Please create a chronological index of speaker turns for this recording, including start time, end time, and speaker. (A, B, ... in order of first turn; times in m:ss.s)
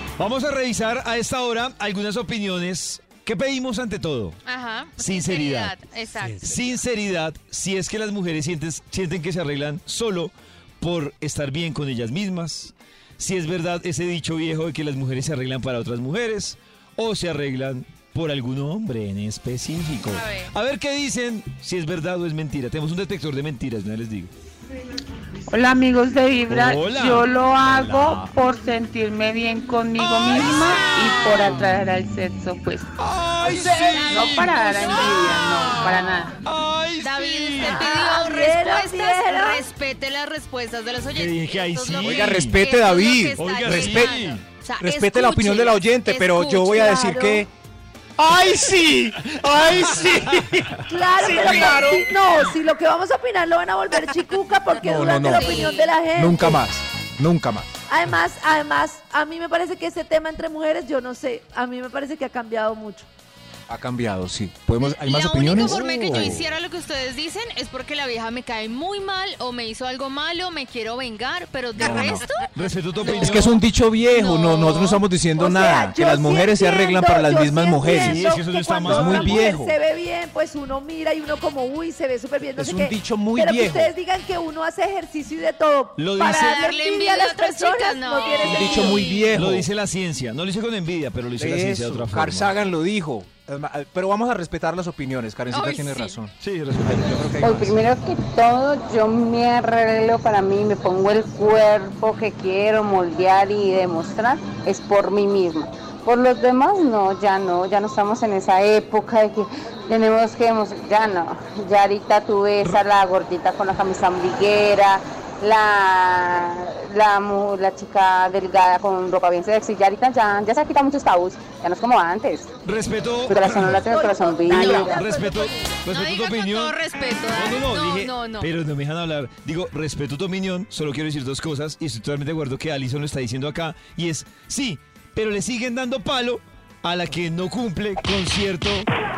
0:00.2-0:04.4 A
0:04.4-0:06.4 B
0:05.0-0:05.8 A
0:06.3-0:24.3 A
0:20.1-0:20.5 B
0:25.5-0:32.9 C
0:26.5-0:28.3 A
0:30.0-0:31.8 A
0:30.4-0:30.8 B
0:33.0-0:37.8 A
0:33.4-0:36.3 C
0:33.6-0:35.2 B
0:35.9-0:36.2 B
0:37.0-0:47.0 B
0:37.6-0:39.6 D
0:41.1-0:42.6 A
0:42.0-0:44.2 E
0:43.4-0:44.4 A
0:44.8-0:47.5 E
0:46.7-0:47.4 D
0:48.2-0:52.5 E
0:49.9-0:50.6 A
0:50.9-0:56.6 D
0:54.8-0:57.7 E
0:55.2-0:55.9 B
0:57.9-1:03.1 D
1:03.7-1:06.4 E
1:04.8-1:15.0 B
1:11.8-1:12.2 E
1:12.5-1:13.6 A
1:13.1-1:18.3 E
1:15.3-1:29.0 D
1:17.9-1:19.4 A
1:18.8-1:19.8 E
1:22.6-1:23.9 E
1:26.0-1:26.6 A
1:26.3-1:29.4 B
1:28.4-1:29.7 E
1:29.3-1:32.5 A
1:31.4-1:37.8 E
1:35.5-1:36.1 B
1:36.4-1:37.4 A
1:37.4-2:02.5 C
2:02.6-2:03.8 A
2:03.3-2:05.0 C
2:03.6-2:05.8 D
2:04.5-2:04.9 B
2:04.8-2:06.8 A
2:05.9-2:08.5 B
2:07.3-2:18.9 A